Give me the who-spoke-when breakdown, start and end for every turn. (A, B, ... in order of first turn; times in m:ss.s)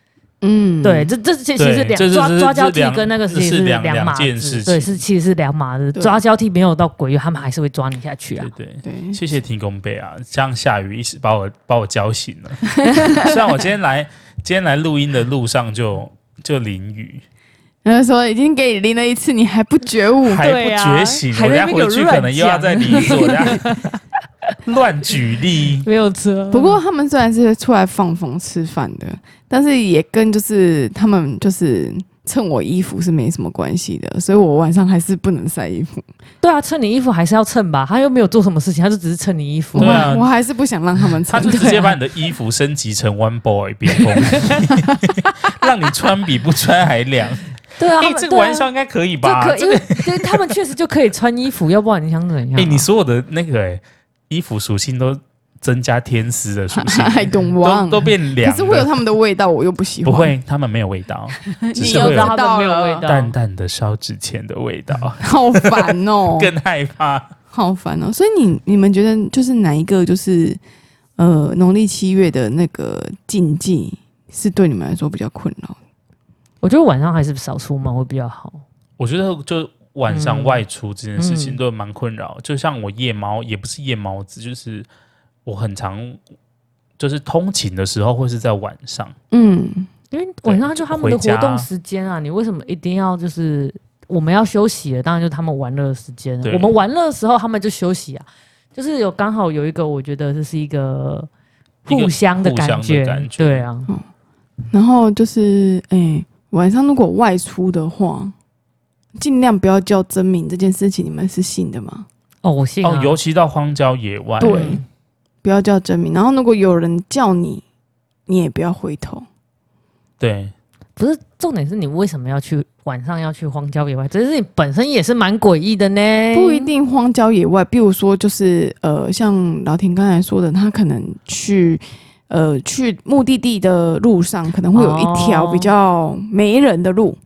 0:00.4-0:01.1 A
0:00.8-0:08.5 B
0:01.6-0:05.0 C
0:08.4-0:17.2 C
0:08.8-0:09.2 A
0:12.8-0:13.4 A
0:17.8-0:20.4 A
0:20.2-0:24.0 C
0:20.4-0:23.8 B
0:24.6-0:25.9 C
0:25.8-0:26.8 B
0:26.5-0:36.0 A
0:36.4-0:40.1 B
0:39.8-0:41.9 A
0:39.8-0:40.3 C
0:41.3-0:50.5 C
0:41.5-0:41.9 B
0:44.2-0:44.6 B
0:47.8-0:48.7 B
0:49.2-0:52.9 B
0:52.5-0:58.9 C
0:56.7-1:00.3 A
1:00.0-1:02.4 C
1:01.5-1:03.1 A
1:01.8-1:03.3 B
1:03.0-1:07.3 C
1:05.2-1:06.5 A
1:07.5-1:10.6 A
1:11.2-1:15.8 A
1:16.6-1:18.6 B
1:19.0-1:24.9 C
1:20.1-1:20.6 B
1:21.2-1:21.6 B
1:25.4-1:26.2 C
1:27.0-1:29.1 C
1:29.3-1:29.9 A
1:30.1-1:41.3 B
1:30.4-1:31.7 C
1:36.4-1:36.7 C
1:41.9-1:43.7 C
1:41.9-1:43.9 B
1:44.7-1:48.3 A
1:49.2-1:52.1 A
1:52.4-1:53.2 B
1:52.8-1:54.8 C
1:54.4-1:54.8 A
1:54.4-1:54.8 B
1:55.4-1:57.6 A
1:58.3-1:59.2 A
2:00.2-2:00.5 C
2:01.0-2:06.7 B
2:06.3-2:17.2 A
2:14.7-2:15.7 B